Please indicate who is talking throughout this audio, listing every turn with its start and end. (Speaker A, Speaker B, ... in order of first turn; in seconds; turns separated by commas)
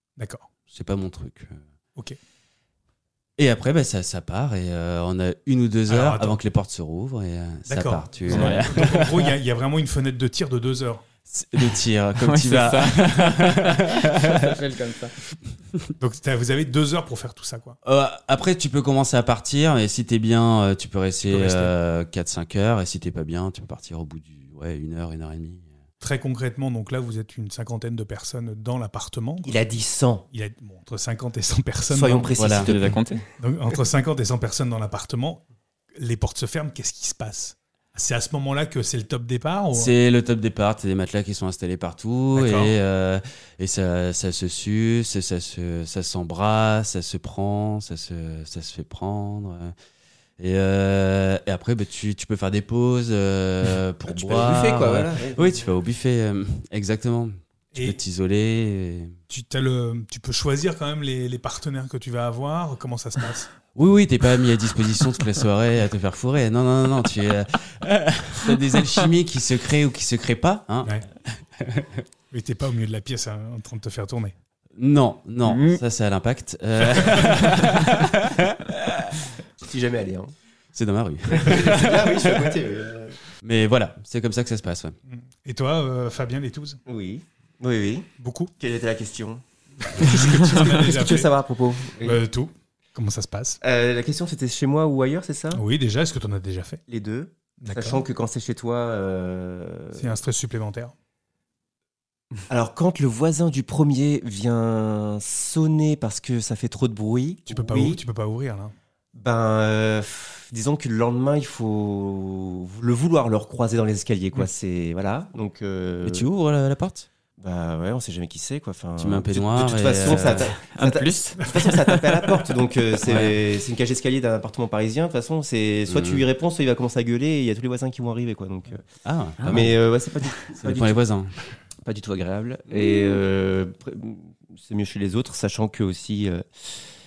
Speaker A: 0.2-0.5, Speaker B: 0.7-1.6, Speaker B: 3.4-9.3, Speaker A: 5.9-6.4, Speaker A: 7.7-11.0, Speaker C: 8.3-8.7, Speaker B: 11.3-14.3, Speaker C: 12.2-15.2, Speaker A: 16.0-17.8, Speaker B: 17.8-25.7, Speaker A: 21.2-21.7, Speaker A: 26.0-29.6, Speaker D: 29.4-30.2, Speaker A: 30.3-32.6, Speaker D: 31.9-33.0, Speaker B: 32.4-32.7, Speaker C: 32.5-33.2, Speaker A: 33.4-35.4, Speaker A: 36.0-39.9, Speaker B: 39.7-49.7, Speaker A: 42.3-42.7, Speaker B: 50.4-59.1, Speaker D: 54.1-55.6, Speaker A: 59.3-63.5, Speaker B: 63.7-72.0, Speaker A: 72.3-74.3, Speaker B: 74.8-79.1, Speaker C: 75.5-75.8, Speaker D: 79.6-80.3, Speaker B: 80.7-82.5, Speaker D: 81.3-83.2, Speaker B: 83.4-84.9, Speaker A: 85.1-86.8, Speaker D: 86.8-89.4, Speaker A: 88.2-88.5, Speaker A: 89.8-91.3, Speaker D: 90.0-92.2, Speaker A: 92.0-93.6, Speaker D: 93.6-95.6, Speaker A: 95.5-96.8, Speaker D: 96.9-100.2, Speaker A: 97.6-98.0, Speaker A: 99.9-100.9, Speaker D: 102.5-108.0, Speaker A: 107.5-108.7, Speaker D: 109.1-116.3, Speaker B: 116.0-117.1, Speaker D: 117.4-128.8, Speaker B: 119.0-120.5, Speaker C: 120.3-122.2, Speaker B: 123.1-123.3, Speaker B: 125.9-126.2, Speaker B: 129.0-129.8, Speaker C: 129.4-129.7, Speaker D: 129.5-131.0, Speaker B: 130.5-131.3, Speaker D: 131.8-136.8